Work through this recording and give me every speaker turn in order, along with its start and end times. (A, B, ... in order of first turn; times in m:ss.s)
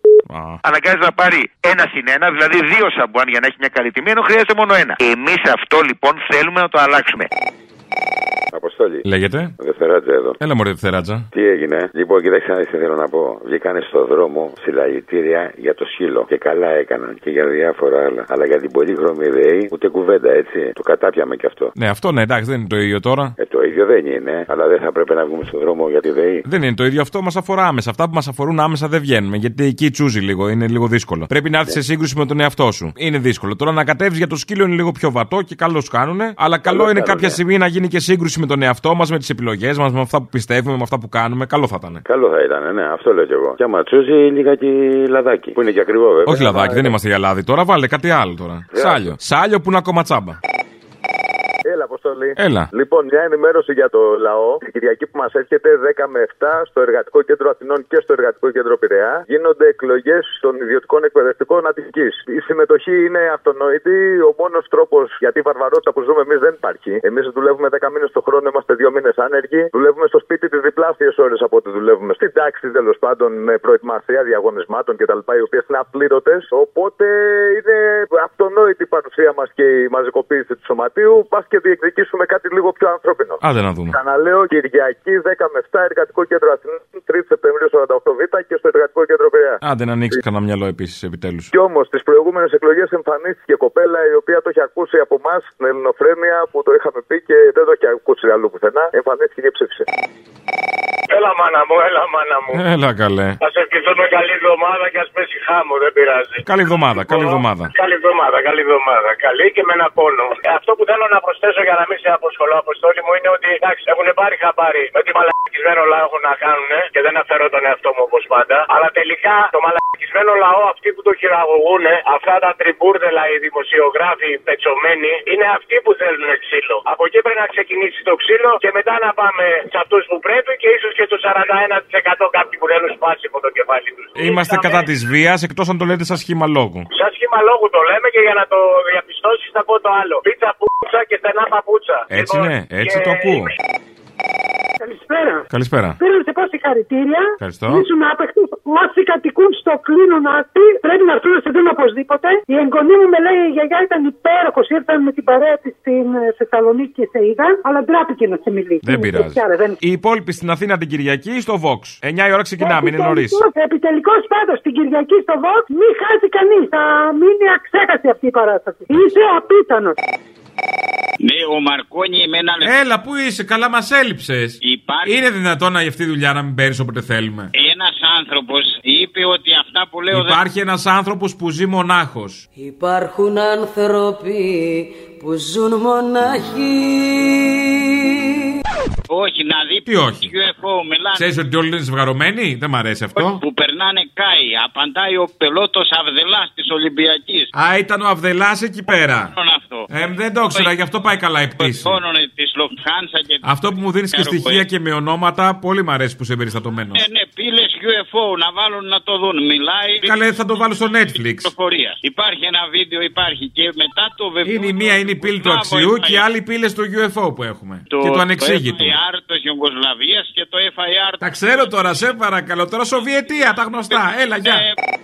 0:00.3-0:00.6 A
0:00.6-0:07.3 B
0:08.5-0:09.0 C
0:09.0-0:09.5 A
0:09.6-0:10.4 C
0:10.4-0:11.3 A
0:11.3-0:21.7 C
0:21.8-0:23.3 A
0:23.4-0:26.4 C
0:26.4-0:42.0 A
0:36.6-0:37.4 C
0:42.0-0:46.9 C
0:46.2-0:50.4 A
0:48.7-0:49.1 C
0:51.6-1:29.6 D
0:52.4-0:52.7 A
1:23.4-1:24.0 A
1:29.6-1:31.5 A
1:31.5-1:39.8 D
1:41.1-1:42.6 E
1:42.5-1:43.4 A
1:43.4-2:14.9 E
1:46.4-1:47.7 A
2:14.2-2:16.8 A
2:16.9-2:23.5 E
2:22.1-2:23.5 A
2:24.8-2:39.7 F
2:25.5-2:26.0 A
2:27.4-2:27.8 A
2:38.8-2:43.4 A
2:42.6-2:50.0 F
2:51.2-2:52.7 G
2:52.6-2:57.5 A
2:54.6-2:55.1 G
2:57.5-3:00.4 G
3:00.1-3:02.4 A
3:02.6-3:07.8 H
3:09.1-3:11.2 G
3:09.8-3:10.3 A
3:11.1-3:13.4 A
3:13.2-3:17.5 G
3:17.5-3:19.3 A
3:18.9-3:19.9 G
3:19.9-3:22.0 A
3:21.6-3:23.6 G
3:23.4-3:27.0 A
3:24.1-3:24.6 G
3:26.9-3:30.1 G
3:30.0-3:31.5 A
3:31.4-3:36.2 G
3:34.4-3:39.0 A
3:37.9-3:41.2 G
3:41.2-3:44.6 A
3:43.9-3:44.7 G